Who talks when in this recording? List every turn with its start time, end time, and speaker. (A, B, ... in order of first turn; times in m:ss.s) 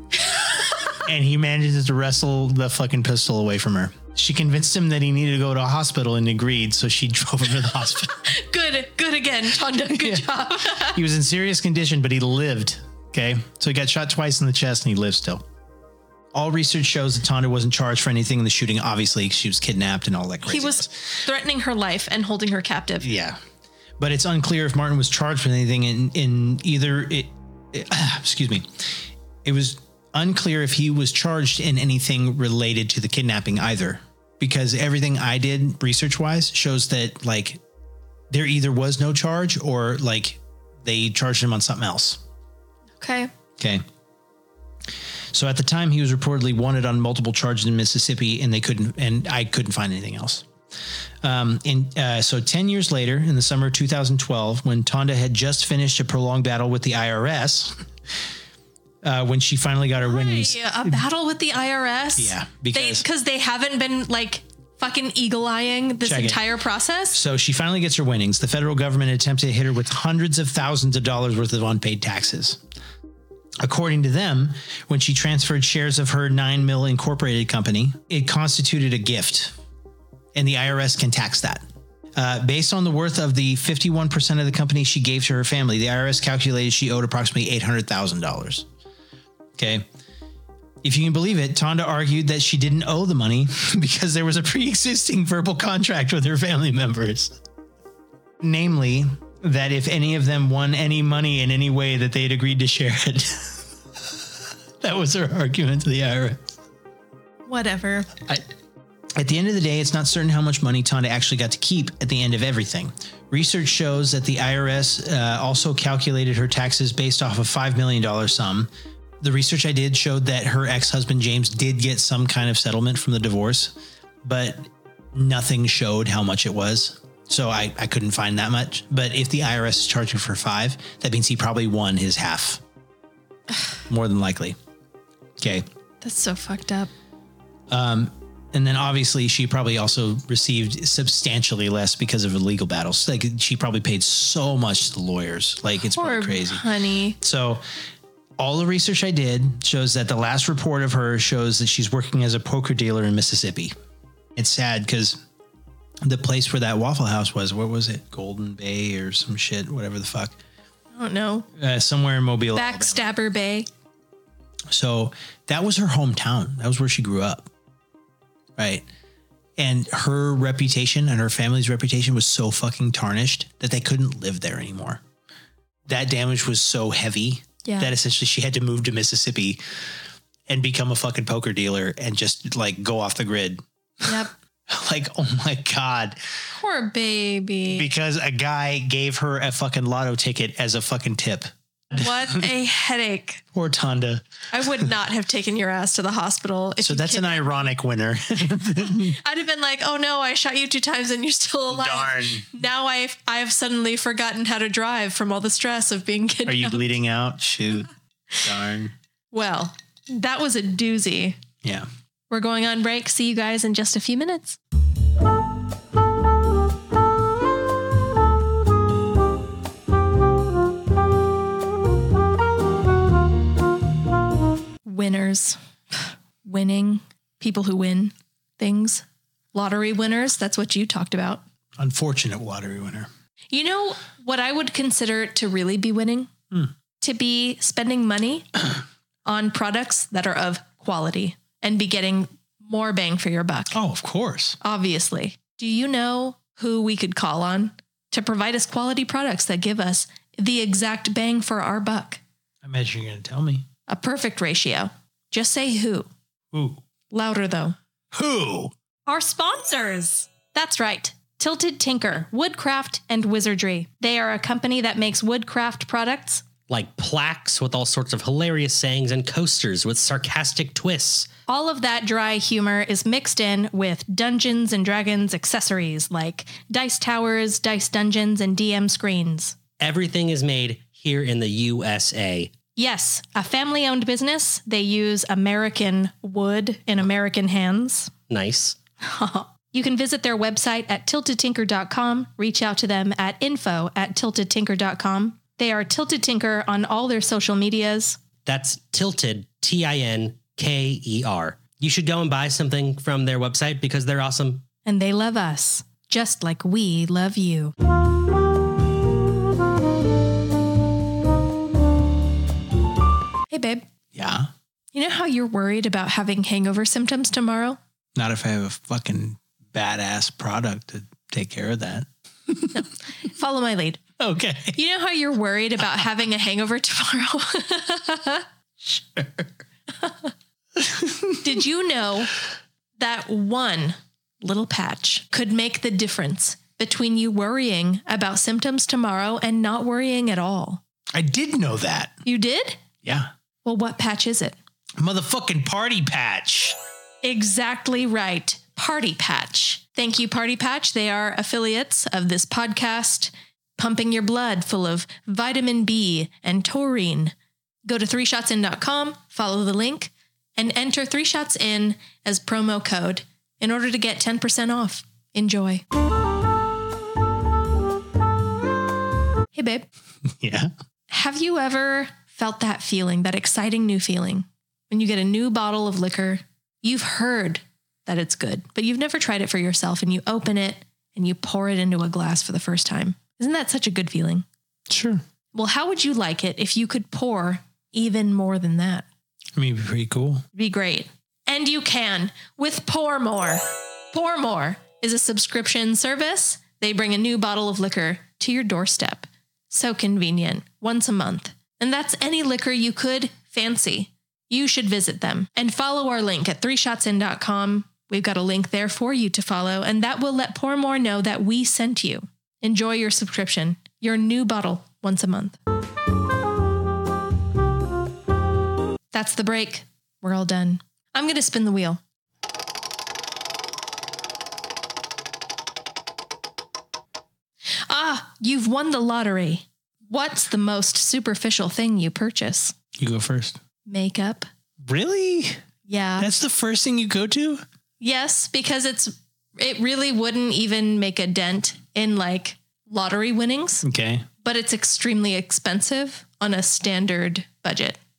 0:00.3-0:00.9 A
0:00.9-0:08.2 B
0:08.2-0:11.0 A
0:09.9-0:15.4 B
0:16.3-0:21.0 B
0:20.5-0:23.1 A
0:23.0-0:23.4 B
0:24.0-0:37.6 B
0:38.3-0:42.2 B
0:43.0-0:43.3 A
0:43.6-0:43.8 B
0:45.3-0:50.4 B
0:51.2-0:57.8 B
0:59.0-1:01.0 B
1:00.0-1:07.2 A
1:02.2-1:03.0 B
1:06.0-1:06.4 B
1:07.1-1:12.6 B
1:13.6-1:19.5 B
1:20.3-1:21.6 B
1:22.2-1:28.7 B
1:29.6-1:29.8 B
1:30.8-1:37.4 B
1:38.4-1:44.1 B
1:44.8-1:46.5 B
1:47.4-1:48.1 A
1:49.2-1:58.7 B
1:59.2-2:12.6 B
2:13.9-2:14.6 B
2:15.4-2:15.6 B
2:16.0-2:16.9 A
2:17.7-2:26.6 B
2:25.9-2:27.2 A
2:27.2-2:27.6 B
2:28.4-2:33.7 B
2:34.4-2:35.2 B
2:36.0-2:40.4 B
2:40.9-2:41.5 A
2:41.6-2:43.0 B
2:42.5-2:43.7 A
2:44.7-2:47.5 B
2:48.6-2:48.8 B
2:49.6-2:55.0 B
2:55.9-2:59.6 B
2:57.6-2:57.9 A
3:00.5-3:06.2 B
3:04.0-3:04.3 A
3:06.5-3:07.9 A
3:07.7-3:12.0 B
3:11.9-3:13.4 A
3:13.5-3:14.2 B
3:14.5-3:17.7 A
3:16.8-3:19.2 B
3:18.8-3:26.8 A
3:21.7-3:22.5 B
3:26.4-3:28.9 B
3:29.3-3:31.4 A
3:31.6-3:31.9 B
3:32.3-3:34.6 A
3:44.8-3:51.4 A
3:51.8-3:53.1 B
3:53.5-3:56.3 A
3:57.0-3:58.5 A
3:59.2-4:03.8 A
4:03.7-4:04.6 B
4:04.6-4:12.2 A
4:12.6-4:13.6 B
4:13.9-4:16.1 A
4:16.5-4:16.8 B
4:17.1-4:17.8 A
4:18.1-4:18.7 B
4:19.0-4:26.4 A
4:26.7-4:31.3 C
4:31.5-4:39.6 A
4:39.8-4:42.5 C
4:42.8-4:48.1 A
4:48.3-4:48.8 C
4:49.0-4:58.2 A
4:58.4-5:04.6 C
5:04.8-5:07.7 A
5:13.5-5:13.8 A
5:14.1-5:14.5 B
5:14.9-5:17.8 A
5:18.2-5:22.8 B
5:22.7-5:24.0 A
5:24.2-5:24.8 B
5:24.7-5:29.1 A
5:30.0-5:30.3 A
5:30.8-5:31.4 B
5:31.4-5:32.3 A
5:33.0-5:40.8 A
5:41.1-5:42.2 B
5:42.2-5:42.8 A
5:43.0-5:43.3 B
5:43.6-5:44.6 A
5:45.0-5:46.8 B
5:47.2-5:57.3 A
5:57.8-6:05.8 A
6:09.5-6:09.9 A
6:10.4-6:10.7 B
6:11.1-6:24.4 A
6:24.9-6:25.2 B
6:25.5-6:29.0 A
6:29.6-6:30.4 B
6:30.5-6:55.6 A
6:59.1-7:02.0 A
7:07.9-7:12.7 A
7:13.0-7:13.6 B
7:13.9-7:14.5 A
7:14.8-7:15.6 B
7:15.9-7:16.3 A
7:16.2-7:17.6 B
7:18.0-7:23.8 A
7:23.8-7:24.3 B
7:24.4-7:28.0 A